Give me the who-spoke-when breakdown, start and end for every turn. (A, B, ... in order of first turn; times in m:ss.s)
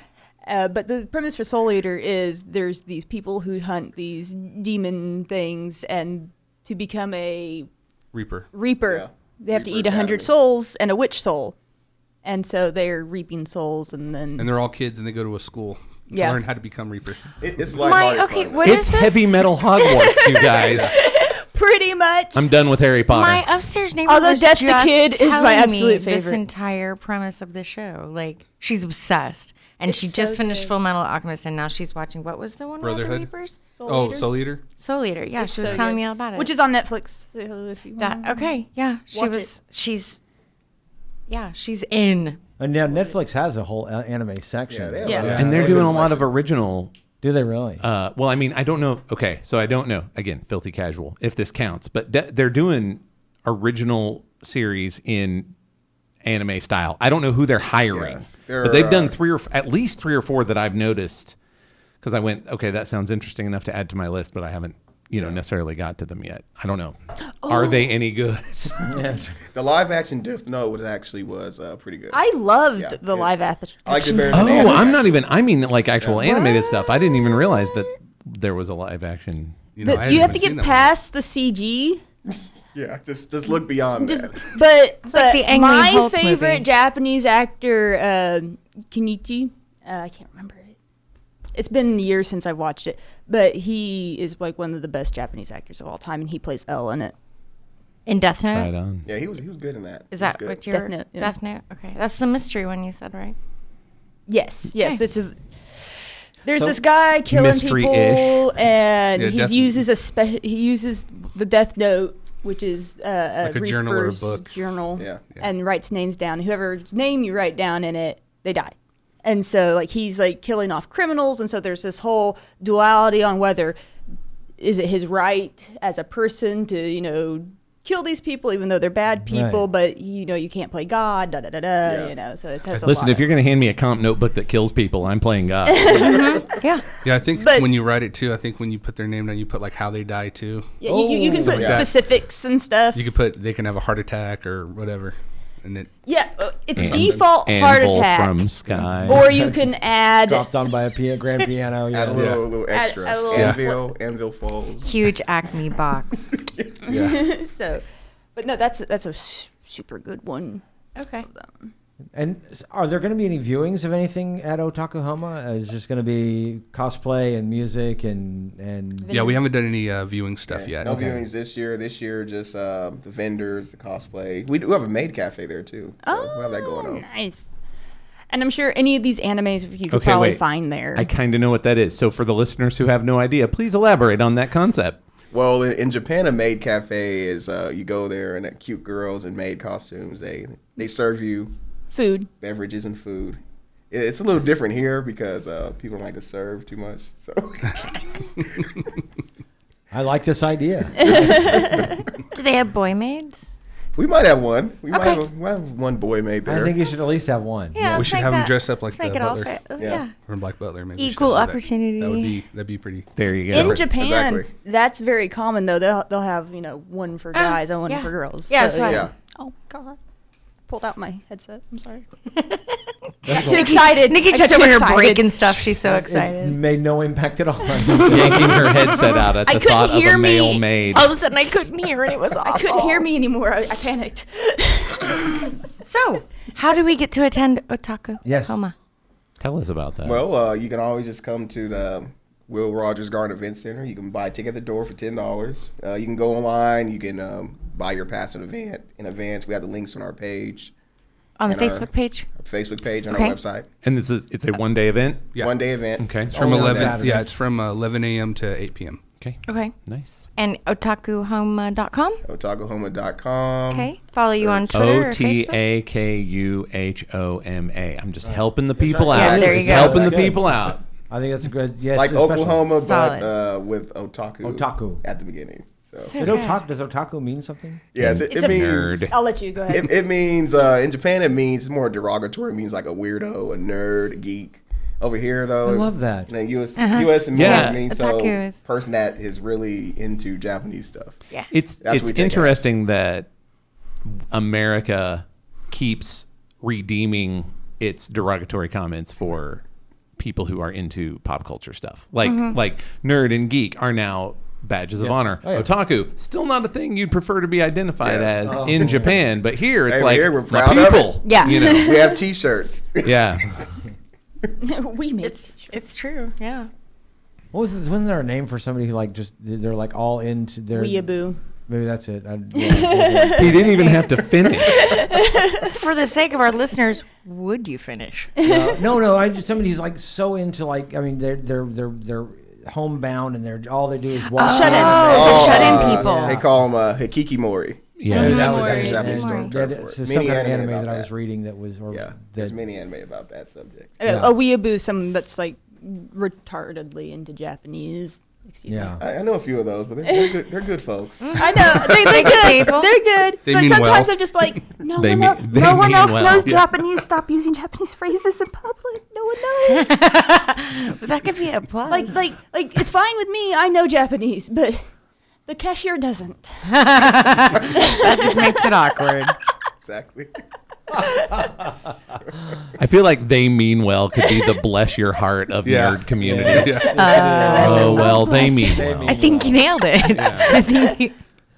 0:00.4-0:07.7 A
0:08.1-0:08.5 B
0:08.5-0:11.6 A
0:08.9-0:10.3 C
0:12.2-0:14.5 A
0:14.4-0:17.4 B
0:16.1-0:16.4 A
0:17.4-0:18.8 C
0:17.8-0:19.4 D
0:18.6-0:21.0 E
0:19.8-0:22.4 A
0:20.6-0:21.0 B
0:22.3-0:23.4 E
0:23.1-0:33.5 D
0:24.1-0:26.4 A
0:29.8-0:30.7 A
0:32.8-0:33.3 B
0:33.1-0:34.3 A
0:33.9-0:34.6 B
0:34.8-0:36.5 D
0:35.4-0:38.6 A
0:38.0-0:40.2 D
0:39.1-0:39.5 A
0:41.3-0:42.4 D
0:42.6-0:45.9 F
0:44.7-0:46.3 C
0:45.0-0:45.3 A
0:45.2-0:45.7 B
0:45.3-0:46.9 E
0:47.2-0:47.8 F
0:47.8-0:55.5 E
0:56.2-1:01.4 E
0:57.9-0:59.2 C
1:02.0-1:09.0 E
1:07.4-1:07.9 A
1:08.9-1:09.4 F
1:09.5-1:12.2 C
1:12.1-1:15.1 A
1:12.8-1:13.3 C
1:13.8-1:15.2 C
1:14.3-1:20.4 E
1:16.0-1:16.3 C
1:16.2-1:17.1 A
1:19.8-1:20.9 B
1:19.8-1:22.0 A
1:22.7-1:24.6 C
1:24.0-1:30.8 A
1:25.1-1:26.7 D
1:31.6-1:37.2 A
1:38.1-1:38.7 D
1:38.5-1:39.1 E
1:39.0-1:40.6 C
1:40.1-1:43.4 D
1:40.7-1:41.3 A
1:44.3-2:03.8 A
1:47.3-1:48.5 E
1:49.2-1:49.8 B
1:53.4-1:54.5 B
1:55.0-1:55.2 C
2:04.6-2:13.3 A
2:09.3-2:09.7 F
2:11.8-2:12.1 C
2:12.8-2:16.3 E
2:15.7-2:16.6 A
2:16.0-2:16.9 D
2:17.0-2:20.8 B
2:17.3-2:17.7 A
2:20.8-2:23.0 A
2:20.9-2:21.7 F
2:21.4-2:21.9 B
2:21.5-2:21.9 C
2:23.0-2:25.9 B
2:26.1-2:28.5 A
2:26.8-2:29.3 E
2:26.8-2:27.3 B
2:28.7-2:32.4 F
2:29.0-2:30.5 A
2:31.9-2:35.1 C
2:32.2-2:32.4 B
2:32.7-2:33.9 A
2:33.3-2:33.6 B
2:34.8-2:36.3 D
2:36.2-2:37.1 C
2:36.9-2:37.2 B
2:36.9-2:37.8 A
2:38.4-2:40.6 A
2:41.0-2:41.3 D
2:41.3-2:41.7 A
2:42.1-2:49.1 F
2:49.1-2:49.4 A
2:49.1-2:51.0 B
2:50.5-2:57.1 C
2:50.8-2:51.2 F
2:56.0-2:57.4 A
2:58.3-3:01.1 A
2:59.9-3:00.4 E
3:00.9-3:05.0 E
3:05.3-3:11.5 C
3:11.9-3:12.3 A
3:12.4-3:13.4 C
3:13.9-3:18.6 C
3:19.9-3:21.7 F
3:21.0-3:22.0 A
3:21.0-3:21.9 C
3:22.3-3:23.5 D
3:24.0-3:26.8 C
3:24.9-3:25.2 D
3:26.5-3:28.1 F
3:27.7-3:30.1 D
3:27.9-3:29.7 B
3:29.8-3:30.0 C
3:30.2-3:33.8 B
3:31.0-3:32.4 D
3:33.2-3:33.8 E
3:33.5-3:40.0 A
3:33.6-3:34.5 C
3:37.4-3:39.1 D
3:38.8-3:39.1 C
3:40.7-3:42.0 A
3:42.4-3:46.6 D
3:43.3-3:43.7 F
3:43.3-3:45.5 A
3:45.9-3:48.7 F
3:47.9-3:49.3 D
3:48.0-3:51.1 E
3:49.5-3:50.6 A
3:50.9-3:53.1 D
3:52.4-3:55.3 A
3:55.8-3:58.7 D
3:58.2-3:58.6 F
3:59.4-4:00.3 E
4:00.0-4:10.7 C
4:11.4-4:12.3 D
4:11.4-4:13.7 C
4:13.1-4:13.4 D
4:13.8-4:15.3 E
4:15.4-4:17.1 C
4:16.0-4:16.3 E
4:16.3-4:17.3 F
4:16.3-4:19.0 B
4:19.2-4:20.3 E
4:19.5-4:19.8 D
4:20.4-4:22.2 D
4:22.3-4:24.7 C
4:23.7-4:25.6 D
4:24.7-4:30.8 E
4:28.2-4:32.8 F
4:29.1-4:30.2 D
4:31.9-4:36.2 C
4:32.8-4:33.3 D
4:34.4-4:35.0 F
4:36.0-4:36.6 D
4:36.2-4:37.8 F
4:37.9-4:39.1 C
4:38.0-4:39.2 E
4:38.3-4:39.9 A
4:39.7-4:51.2 C
4:45.6-4:46.3 F
4:46.8-4:48.6 D
4:47.3-4:47.8 E
4:51.5-4:53.3 E
4:51.8-4:52.6 C
4:54.1-4:59.6 E
5:00.2-5:12.1 E
5:02.2-5:02.6 D
5:05.0-5:05.7 F
5:08.0-5:09.0 C
5:08.4-5:09.2 F
5:09.9-5:13.2 C
5:11.2-5:11.8 D
5:11.5-5:11.8 A
5:13.0-5:13.6 E
5:14.6-5:15.8 A
5:15.2-5:16.7 D
5:17.5-5:21.1 F
5:20.7-5:21.4 A
5:21.7-5:23.8 F
5:22.5-5:23.7 A
5:23.4-5:25.1 E
5:23.8-5:24.9 D
5:24.5-5:25.7 A
5:25.6-5:28.3 D
5:28.4-5:28.9 A
5:28.4-5:36.5 F
5:34.3-5:36.3 D
5:34.4-5:36.3 A
5:35.1-5:41.1 C
5:38.0-5:38.5 E
5:38.1-5:39.5 D
5:38.1-5:42.6 F
5:38.5-5:39.1 A
5:41.9-5:44.0 C
5:44.0-5:49.0 A
5:44.1-5:44.3 F
5:48.7-5:49.0 F
5:49.0-5:51.4 C
5:50.0-5:50.4 A
5:51.2-5:53.0 D
5:51.3-6:00.0 A
5:53.4-5:54.6 B
5:55.0-5:56.6 E
5:59.7-6:02.2 D
6:01.9-6:04.9 A
6:05.5-6:06.8 A
6:06.7-6:09.4 D
6:07.7-6:08.6 A
6:09.8-6:10.3 C
6:11.4-6:11.7 F
6:12.8-6:19.5 E
6:15.6-6:17.0 B
6:16.2-6:19.7 F
6:16.8-6:21.2 D
6:20.1-6:20.5 E
6:20.2-6:20.5 B